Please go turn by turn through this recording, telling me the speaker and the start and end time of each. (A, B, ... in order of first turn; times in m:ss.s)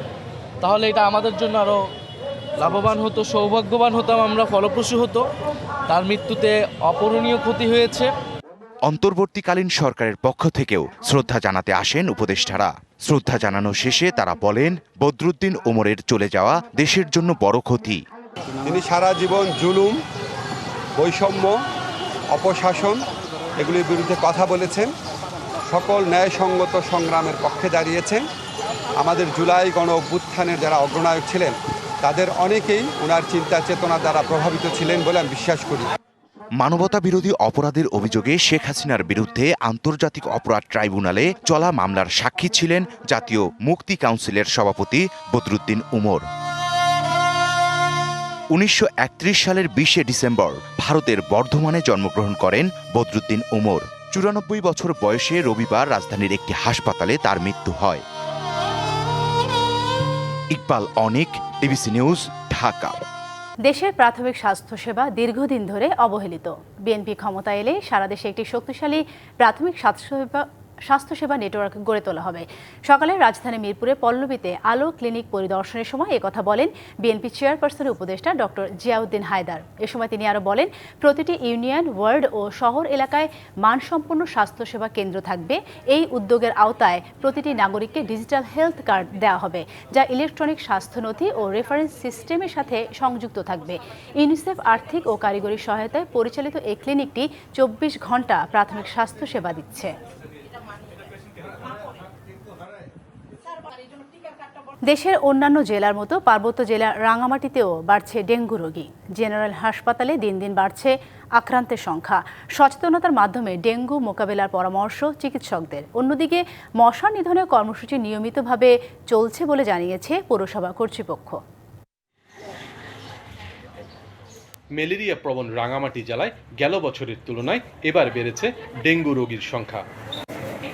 0:00.6-0:01.8 A
0:02.6-0:05.2 A
0:05.9-0:08.1 A
0:08.9-0:18.0 B
0:18.7-0:20.0 C
0:21.0-0:21.6 C
0:22.3-0:23.0 C
0:23.6-0:24.9 C
0:25.7-0:28.2 C
0:29.0-0:35.9 C
0:36.6-0:46.2 B
0:48.5-0:58.0 B
1:00.6-1:03.0 B
1:03.6-1:39.9 D
1:44.8-2:01.4 D
2:04.8-2:09.8 E